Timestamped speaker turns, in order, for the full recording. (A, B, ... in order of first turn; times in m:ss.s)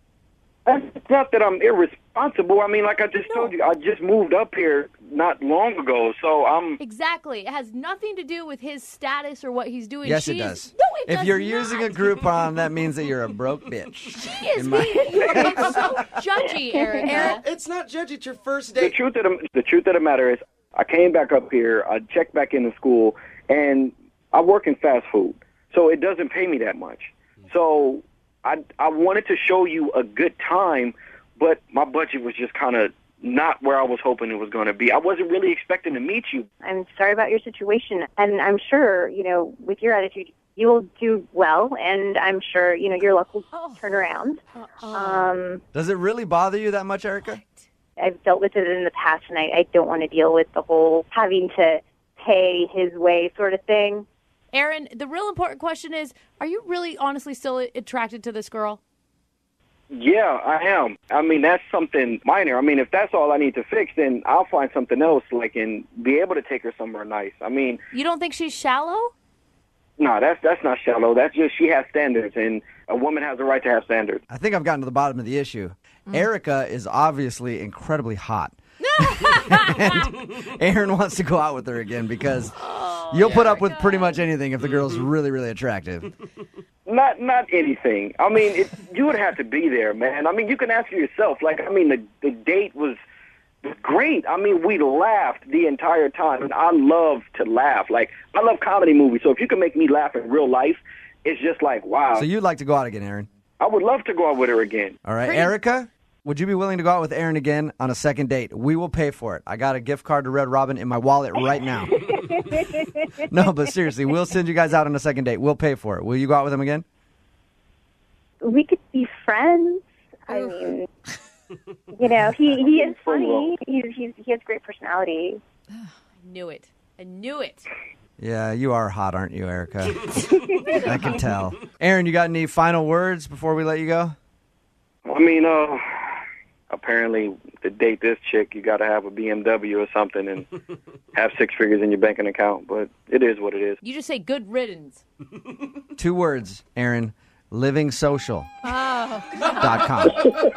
0:00.6-0:06.8 A
0:03.2-0:03.5 B
0:06.8-0:12.5 B
0:10.0-0:15.7 C
0:14.3-0:17.4 B
0:15.4-0:15.8 D
0:17.0-0:19.0 D
0:18.8-0:36.5 A
0:36.6-0:44.4 E
0:43.5-0:43.8 B
0:44.5-0:45.3 B
0:44.9-0:45.6 E
0:45.7-0:47.4 C
0:47.3-0:47.6 B
0:48.0-0:54.0 E
0:54.5-0:58.8 B
0:59.9-1:07.8 A
1:07.9-1:09.1 B
1:10.0-1:14.2 A
1:14.3-1:18.6 C
1:18.9-1:20.0 B
1:19.4-1:22.6 C
1:22.6-1:24.2 B
1:23.1-1:26.1 C
1:26.8-1:33.0 A
1:33.6-1:42.2 A
1:42.1-1:43.3 C
1:43.6-1:45.0 A
1:45.0-1:51.9 C
1:45.2-1:45.5 B
1:51.9-1:53.2 E
1:53.2-1:56.8 C
1:58.4-2:00.9 E
2:01.9-2:05.4 E
2:02.6-2:03.5 A
2:06.2-2:07.7 B
2:08.2-2:10.2 C
2:10.7-2:11.2 B
2:10.7-2:14.1 C
2:15.0-2:15.8 A
2:16.7-2:20.5 A
2:21.1-2:23.8 A
2:23.8-2:25.0 B
2:26.0-2:28.5 C
2:28.6-2:29.9 B
2:29.4-2:30.3 C